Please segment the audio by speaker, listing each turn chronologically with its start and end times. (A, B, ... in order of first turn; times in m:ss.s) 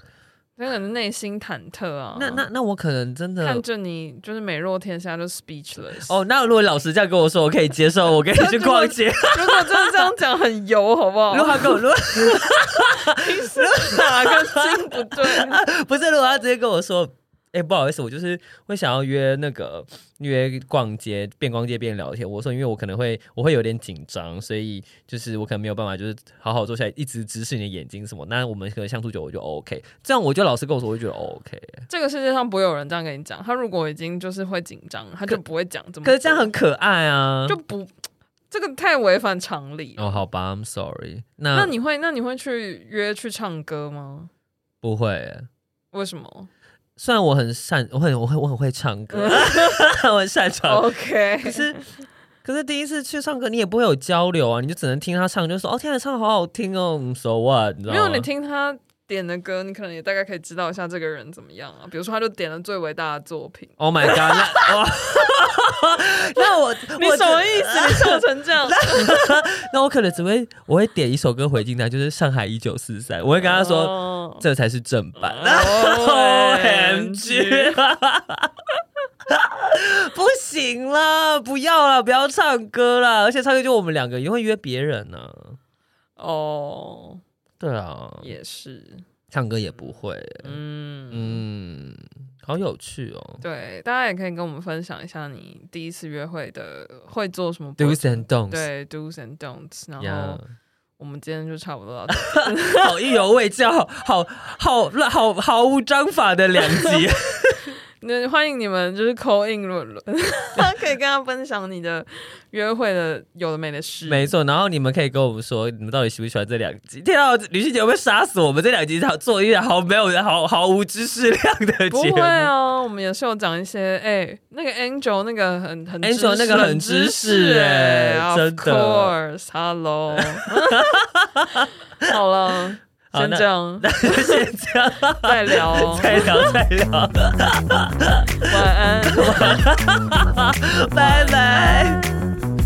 0:00.6-0:02.4 A
0:02.2-0:03.6 B
0:03.4-0:06.2 A
0:06.0-0:10.1 B
0:08.3-0:15.6 A
0:11.3-0:31.8 B
0:31.9-0:36.6 A
0:36.0-0:37.6 B
0:37.5-0:37.9 A
0:38.5-0:40.2 A
0:40.0-0:41.7 B
0:41.5-0:44.3 A
0:44.8-0:45.5 B
0:45.9-0:46.5 A
0:47.0-0:50.9 B
0:49.1-0:49.8 A
0:50.7-0:51.9 A
0:51.4-0:51.8 B
0:52.4-0:58.3 B
0:57.9-1:04.7 A
1:03.8-1:18.5 B
1:06.4-1:09.4 A
1:13.4-1:14.4 A
1:15.2-1:17.8 A
1:19.3-1:25.6 B
1:26.2-1:27.2 A
1:27.6-1:28.3 B
1:28.2-1:29.0 A
1:29.3-1:30.6 B
1:29.8-1:31.4 A
1:31.1-1:33.4 B
1:33.4-1:40.4 A
1:37.8-1:38.7 B
1:40.0-1:40.5 B
1:41.0-1:42.9 A
1:42.3-1:47.8 B
1:48.0-1:54.3 A
1:54.1-2:02.5 B
2:01.9-2:11.0 A
2:06.0-2:09.1 B
2:10.4-2:11.7 B
2:12.0-2:14.5 A
2:13.1-2:18.6 B
2:15.2-2:16.3 A
2:18.3-2:19.6 A
2:19.1-2:22.4 B
2:20.9-2:22.1 A